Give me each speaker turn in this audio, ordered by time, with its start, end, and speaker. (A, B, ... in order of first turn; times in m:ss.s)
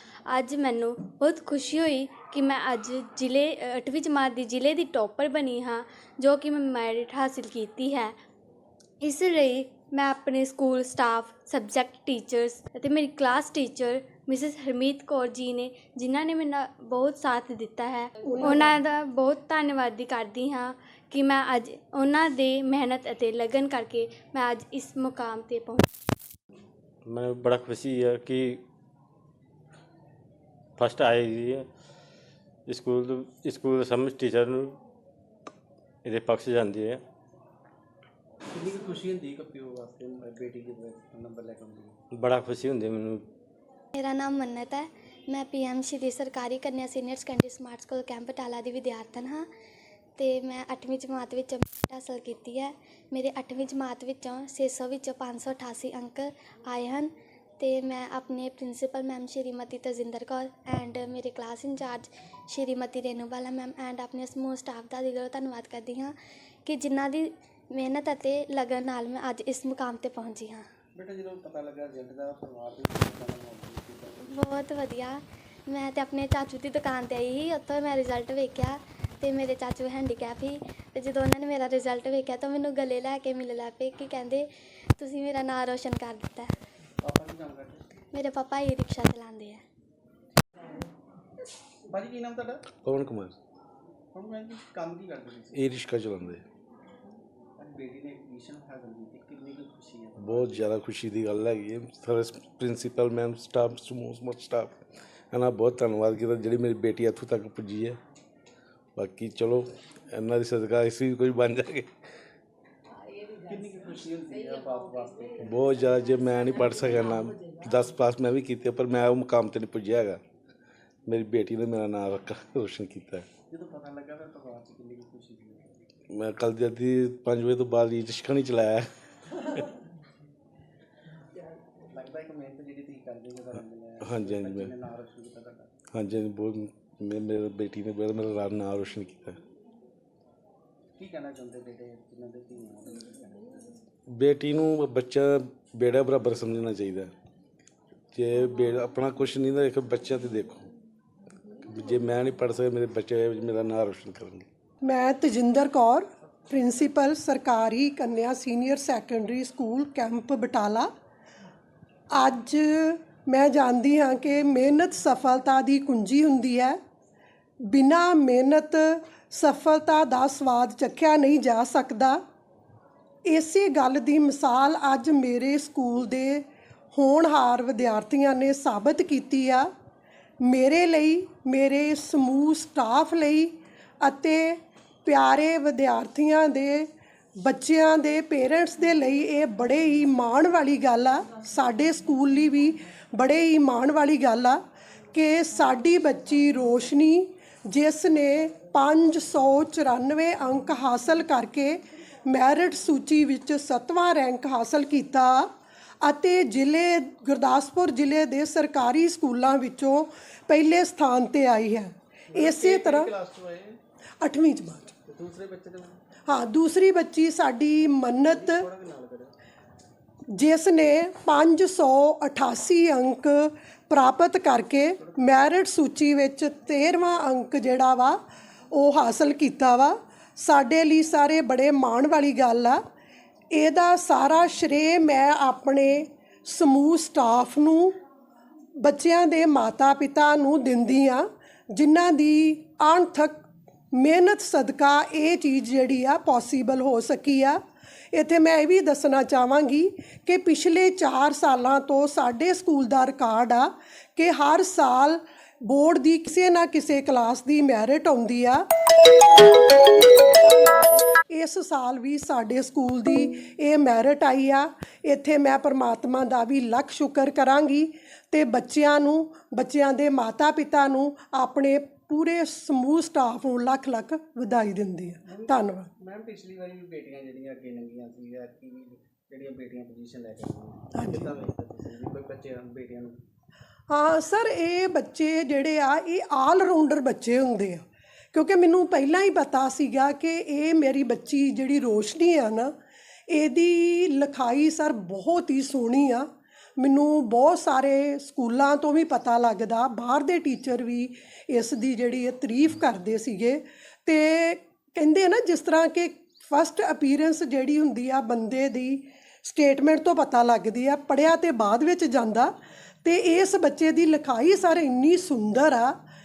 0:00.3-0:08.2 A
0:09.0-0:25.9 A
0:27.0-0:28.6 B
0:30.8-0:31.7 B
0:32.7-0:34.8 B
0:36.0-0:37.0 B
0:38.5-0:42.0 C
0:42.1-0:43.3 B
0:43.9-0:49.5 D
0:50.2-1:06.1 D
1:06.6-1:10.6 D
1:10.9-1:14.3 C
1:14.3-1:24.5 D
1:25.0-1:26.5 D
1:27.0-1:27.9 C
1:28.1-1:29.6 D
1:31.9-1:32.7 C
1:32.8-1:33.4 E
1:34.1-1:35.7 C
1:35.5-1:36.4 E
1:37.6-1:40.7 C
1:40.2-1:44.8 E
1:45.3-1:48.0 E
1:49.0-1:51.9 E
1:53.4-1:55.5 C
1:55.4-2:00.2 E
2:01.1-2:03.3 E
2:03.5-2:05.7 C
2:06.1-2:08.9 E
2:11.9-2:15.7 C
2:14.0-2:14.7 E
2:15.9-2:19.4 E
2:21.0-2:23.7 C
2:24.1-2:27.1 E
2:28.1-2:30.7 E
2:31.6-2:34.5 E
2:34.8-2:40.9 F
2:42.1-2:46.8 F
2:47.7-2:52.2 F
2:53.2-2:59.7 F
3:00.4-3:06.9 F
3:07.4-3:14.6 F
3:15.1-3:33.1 F
3:32.3-3:33.8 C
3:34.2-3:35.0 F
3:35.0-3:36.0 C
3:36.3-3:38.7 F
3:38.2-3:39.3 C
3:40.3-3:48.2 F
3:45.0-3:45.4 C
3:48.7-3:52.8 F
3:53.5-3:58.0 F
3:58.8-4:07.6 F
4:08.1-4:35.9 F
4:35.2-4:43.2 C
4:40.9-4:41.3 F
4:43.9-4:52.7 F
4:53.3-4:56.3 F
4:56.8-5:16.0 F